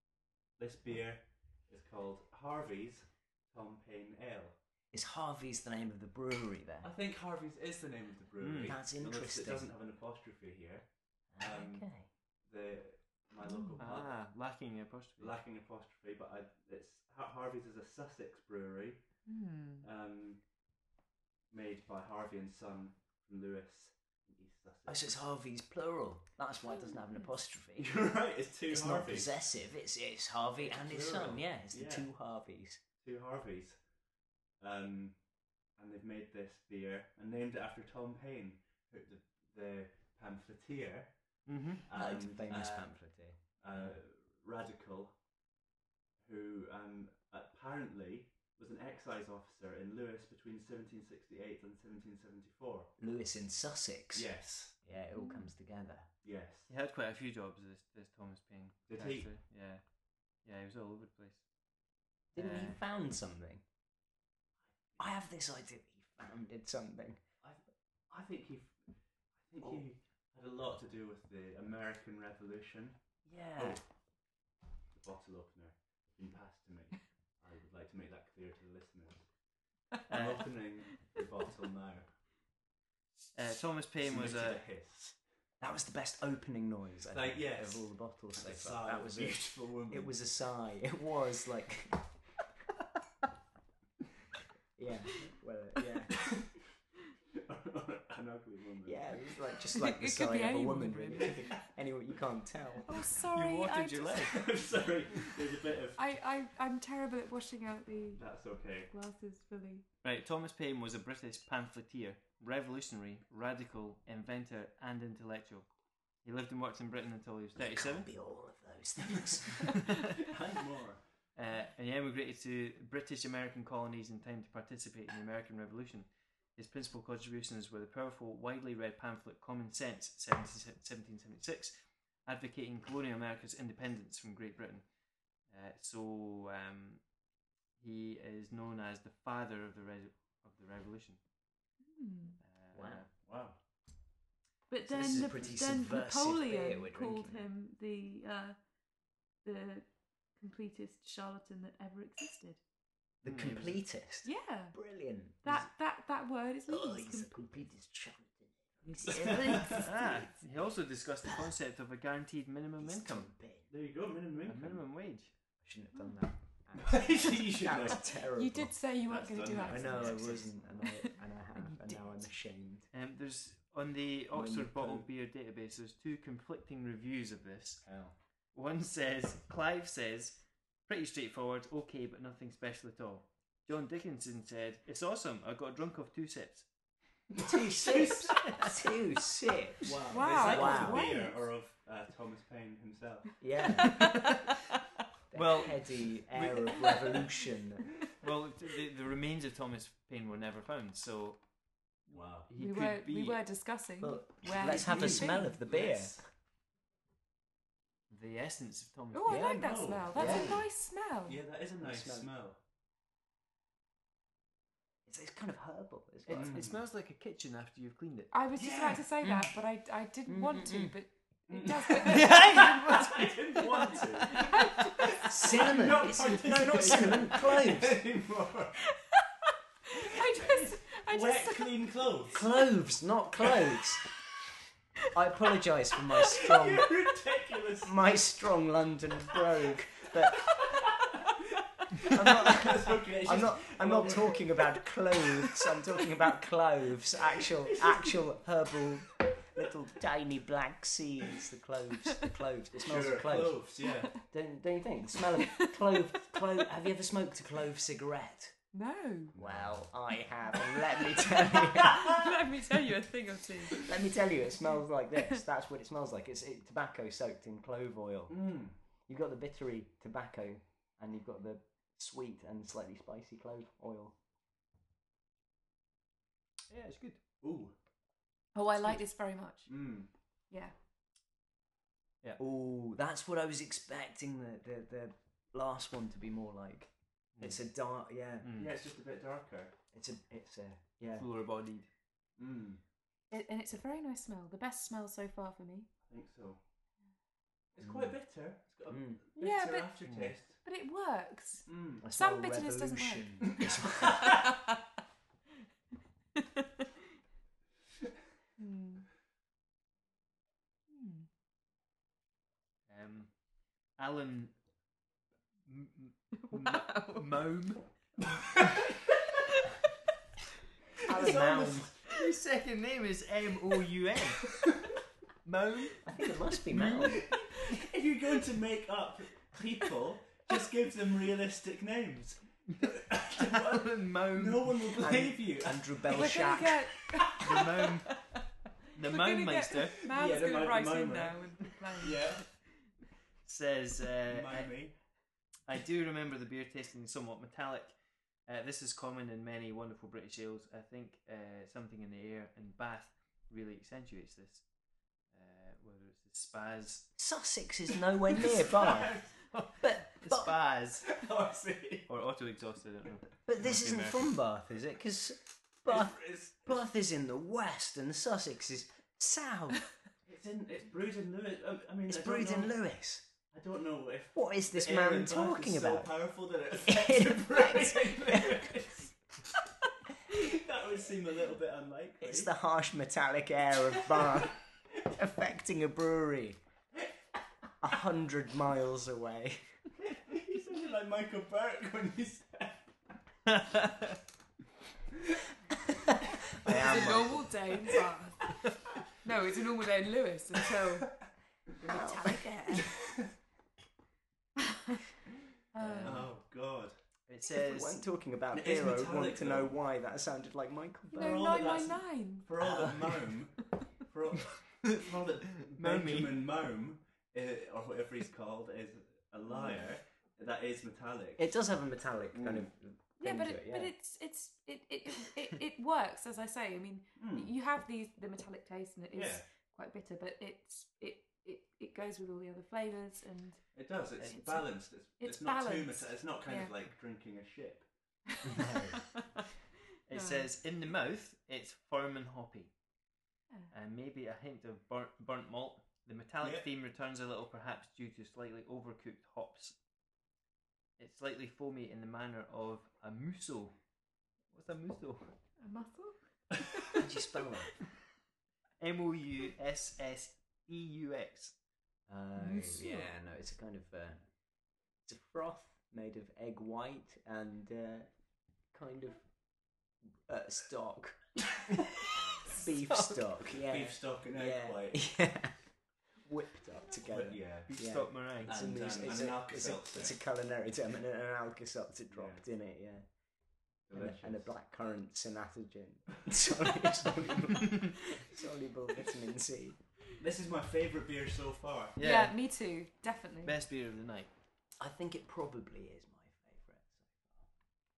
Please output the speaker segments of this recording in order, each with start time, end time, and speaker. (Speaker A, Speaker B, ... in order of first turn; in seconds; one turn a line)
Speaker A: 0.6-4.5
Speaker B: 4.9-6.9
Speaker A: 6.8-11.8
Speaker C: 8.4-8.8
Speaker B: 8.6-9.7
Speaker B: 11.3-12.1
Speaker A: 12.4-14.2
Speaker D: 13.4-13.8
Speaker C: 13.8-15.4
Speaker A: 15.2-19.0
Speaker D: 19.2-19.9
Speaker A: 19.8-20.4
Speaker A: 21.5-25.1
Speaker B: 24.9-28.0
Speaker A: 27.8-29.3
Speaker B: 28.7-32.8
Speaker A: 30.6-32.1
Speaker A: 33.0-33.8
Speaker A: 34.6-35.2
Speaker A: 35.8-41.1
Speaker C: 41.5-41.8
Speaker A: 41.8-42.9
Speaker B: 41.9-43.9
Speaker A: 43.6-45.2
Speaker A: 46.2-52.9
Speaker B: 53.0-54.3
Speaker A: 54.1-54.7
Speaker B: 54.8-56.1
Speaker D: 55.1-55.5
Speaker A: 56.2-56.7
Speaker C: 56.7-59.8
Speaker A: 58.9-59.3
Speaker C: 60.4-61.4
Speaker B: 62.3-63.6
Speaker C: 62.4-62.8
Speaker B: 65.0-67.2
Speaker A: 67.4-68.8
Speaker A: 69.4-73.0
Speaker B: 73.2-73.8
Speaker A: 73.6-73.8
Speaker A: 74.9-79.3
Speaker A: 80.1-82.1
Speaker C: 80.1-80.6
Speaker C: 83.3-84.6
Speaker A: 84.0-85.2
Speaker B: 85.6-92.1
Speaker A: 87.1-90.1
Speaker B: 94.8-96.3
Speaker A: 96.3-96.6
Speaker A: 97.3-99.3
Speaker B: 98.8-103.0
Speaker D: 99.7-101.4
Speaker A: 101.2-101.6
Speaker D: 102.8-104.3
Speaker C: 103.2-104.4
Speaker A: 104.2-106.0
Speaker D: 106.0-108.2
Speaker A: 108.2-108.9
Speaker D: 108.9-109.8
Speaker C: 110.0-115.7
Speaker C: 116.2-118.1
Speaker B: 117.5-119.9
Speaker C: 119.7-119.9
Speaker A: 120.1-121.0
Speaker C: 121.3-134.8
Speaker C: 135.5-137.0
Speaker C: 137.8-141.2
Speaker D: 141.8-142.4
Speaker C: 142.4-143.1
Speaker B: 142.7-143.0
Speaker A: 143.2-143.6
Speaker D: 144.7-148.6
Speaker B: 144.9-147.4
Speaker D: 149.4-152.6
Speaker B: 153.2-155.7
Speaker C: 153.2-153.8
Speaker D: 154.2-154.8
Speaker D: 155.4-157.3
Speaker B: 156.7-159.9
Speaker A: 159.0-159.9
Speaker D: 159.0-159.8
Speaker C: 159.6-163.3
Speaker B: 162.8-163.7
Speaker A: 163.7-164.8
Speaker C: 164.4-165.3
Speaker B: 165.6-168.7
Speaker A: 166.8-168.2
Speaker D: 168.1-172.0
Speaker A: 169.1-170.5
Speaker B: 169.6-172.9
Speaker C: 172.9-177.9
Speaker B: 174.3-175.1
Speaker A: 177.8-178.1
Speaker C: 178.5-186.7
Speaker A: 187.3-188.4
Speaker B: 187.3-191.1
Speaker C: 188.4-188.7
Speaker A: 189.8-193.4
Speaker D: 190.1-191.4
Speaker B: 193.4-194.2
Speaker C: 193.9-194.3
Speaker B: 195.3-197.9
Speaker C: 195.3-196.2
Speaker A: 196.6-196.9
Speaker C: 198.2-201.4
Speaker C: 202.1-203.4
Speaker A: 202.1-202.5
Speaker D: 202.6-205.5
Speaker B: 204.0-206.2
Speaker A: 204.5-206.2
Speaker C: 208.1-209.8
Speaker D: 209.1-211.4
Speaker B: 209.3-210.6
Speaker A: 209.4-210.7
Speaker A: 211.2-212.6
Speaker B: 211.8-212.3
Speaker B: 215.1-216.7
Speaker C: 216.3-218.3
Speaker A: 216.3-216.8
Speaker D: 218.3-222.5
Speaker A: 218.5-219.0
Speaker B: 219.2-219.5
Speaker B: 220.2-221.0
Speaker A: 221.5-228.8
Speaker C: 222.0-224.9
Speaker D: 223.7-225.4
Speaker B: 225.2-228.0
Speaker D: 228.9-231.9
Speaker A: 230.2-232.5
Speaker B: 232.3-234.1
Speaker B: 235.1-236.9
Speaker A: 236.3-238.0
Speaker B: 237.8-240.7
Speaker A: 240.2-241.1
Speaker A: 241.9-244.7
Speaker B: 242.0-253.6
Speaker A: 247.4-248.1
Speaker A: 252.7-254.2
Speaker B: 254.2-258.6
Speaker D: 255.4-255.8
Speaker D: 258.7-259.3
Speaker A: 259.3-259.9
Speaker B: 259.3-262.3
Speaker D: 261.2-264.1
Speaker B: 263.7-268.4
Speaker A: 268.3-268.7
Speaker B: 269.1-274.1
Speaker C: 276.7-277.2
Speaker A: 277.4-277.7
Speaker D: 278.5-279.7
Speaker A: 279.7-280.1
Speaker B: 282.4-288.5
Speaker C: 288.4-288.8
Speaker A: 288.5-289.8
Speaker B: 289.9-291.3
Speaker C: 291.1-291.9
Speaker A: 292.4-292.8
Speaker D: 293.3-295.9
Speaker A: 296.1-296.6
Speaker A: 297.7-300.6
Speaker B: 297.8-298.1
Speaker B: 298.9-299.2
Speaker D: 299.4-299.9
Speaker C: 300.1-300.3
Speaker D: 300.6-303.4
Speaker A: 301.6-302.0
Speaker B: 302.0-304.4
Speaker A: 303.6-304.4
Speaker D: 306.4-306.7
Speaker D: 308.6-309.0
Speaker D: 310.9-311.3
Speaker C: 312.9-313.3
Speaker C: 313.9-314.5
Speaker C: 315.6-317.9
Speaker D: 316.4-317.2
Speaker B: 321.1-321.9
Speaker A: 321.1-322.0
Speaker C: 322.1-324.6
Speaker C: 325.4-326.1
Speaker B: 326.0-327.3
Speaker C: 326.6-327.3
Speaker A: 327.0-336.8
Speaker C: 332.7-334.9
Speaker B: 335.0-336.8
Speaker D: 336.1-338.4
Speaker A: 337.3-337.9
Speaker C: 337.4-338.2
Speaker C: 338.9-340.1
Speaker D: 339.0-342.4
Speaker A: 340.0-342.5
Speaker C: 343.4-344.8
Speaker A: 344.3-344.9
Speaker C: 345.7-347.9
Speaker C: 348.4-354.6
Speaker C: 355.3-357.1
Speaker B: 357.1-360.6
Speaker A: 358.3-359.3
Speaker C: 358.4-358.8
Speaker C: 359.5-361.2
Speaker A: 361.1-362.1
Speaker C: 362.1-364.2
Speaker B: 363.4-369.9
Speaker A: 365.9-366.7
Speaker A: 370.2-372.7
Speaker B: 372.1-373.3
Speaker A: 373.5-379.1
Speaker B: 374.3-376.1
Speaker B: 376.8-378.7
Speaker A: 380.3-382.5
Speaker B: 382.2-386.6
Speaker A: 383.9-384.5
Speaker B: 387.8-389.7
Speaker A: 390.0-392.9
Speaker C: 393.5-394.2
Speaker B: 396.6-397.6
Speaker D: 396.6-398.6
Speaker D: 399.2-401.2
Speaker D: 401.8-402.9
Speaker B: 401.8-402.9
Speaker A: 402.8-403.3
Speaker D: 405.7-406.3
Speaker B: 405.8-406.3
Speaker A: 406.0-406.9
Speaker C: 407.3-408.0
Speaker B: 407.5-411.5
Speaker A: 408.5-409.7
Speaker D: 411.1-412.5
Speaker A: 411.2-421.4
Speaker B: 412.6-413.3
Speaker C: 415.7-416.4
Speaker B: 421.4-423.9
Speaker A: 422.3-422.7
Speaker D: 423.2-433.7
Speaker A: 427.2-427.5
Speaker A: 429.1-429.4
Speaker A: 433.7-437.9
Speaker D: 434.2-434.7
Speaker D: 435.2-436.7
Speaker B: 438.5-439.0
Speaker D: 438.5-439.3
Speaker C: 440.1-442.7
Speaker D: 440.1-440.5
Speaker C: 443.7-449.8
Speaker C: 451.0-453.8
Speaker C: 454.5-455.3
Speaker D: 455.6-457.1
Speaker B: 456.9-457.8
Speaker C: 458.8-461.5
Speaker B: 462.1-464.2
Speaker D: 462.4-463.1
Speaker B: 465.0-468.1
Speaker B: 468.7-469.3
Speaker B: 470.3-471.8
Speaker B: 472.4-475.6
Speaker C: 472.9-473.2
Speaker A: 473.6-475.1
Speaker B: 476.2-483.0
Speaker A: 477.1-480.2
Speaker C: 477.6-479.0
Speaker A: 482.1-482.4
Speaker A: 483.9-484.5
Speaker B: 483.9-489.8
Speaker A: 490.2-492.0
Speaker C: 491.9-492.4
Speaker D: 492.0-493.6
Speaker C: 493.4-494.3
Speaker B: 494.8-497.5